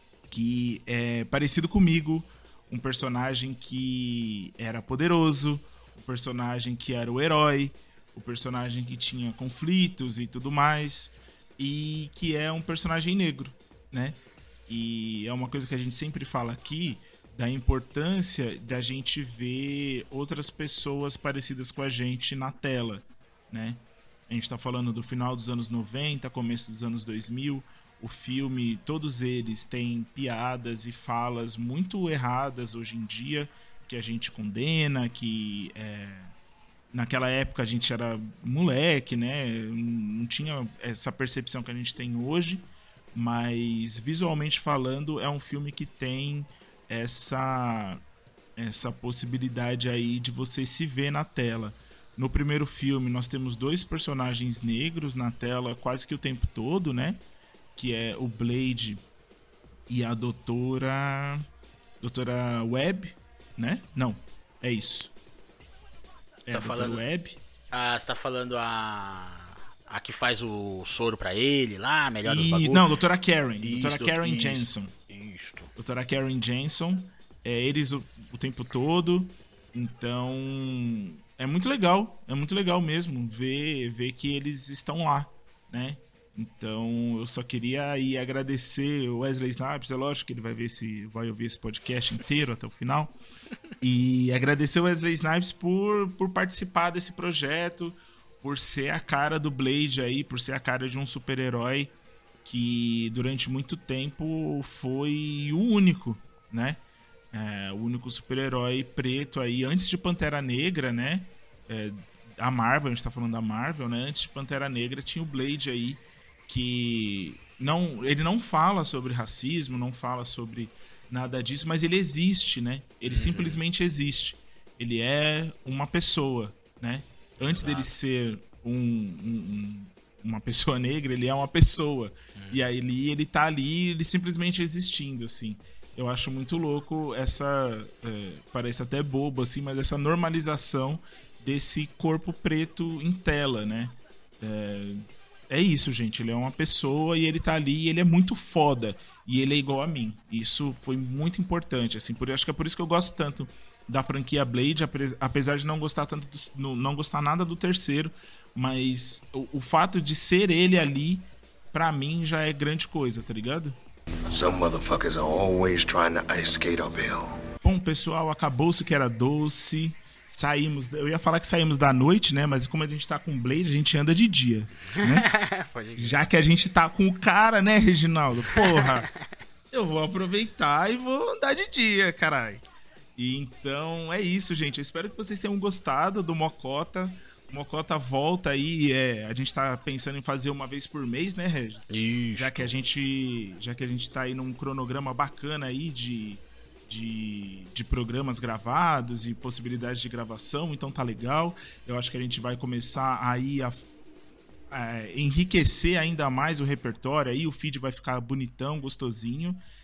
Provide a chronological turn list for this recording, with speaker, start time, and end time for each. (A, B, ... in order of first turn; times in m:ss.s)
0:00.3-0:36.3 A
0:36.9-0:48.0 A
0:48.6-0:57.2 A
0:57.8-0:59.0 A
0:59.9-1:01.5 A
1:02.0-1:05.1 A
1:06.5-1:07.4 A
1:06.5-1:07.0 B
1:07.7-1:12.9 B
1:12.2-1:14.9 A
1:13.6-1:15.7 B
1:15.8-1:33.2 A
1:33.8-1:41.9 A
1:42.4-1:46.8 A
1:47.3-2:43.8 A
2:03.0-2:03.6 B
2:07.4-2:07.9 B
2:12.4-2:12.6 B
2:44.3-2:47.4 C
2:47.6-2:55.3 A
2:55.0-2:56.2 B
2:56.0-2:59.1 A
2:58.6-2:58.9 B
2:59.7-3:02.6 A
3:03.2-3:23.9 A
3:11.9-3:12.7 B
3:24.7-3:29.6 A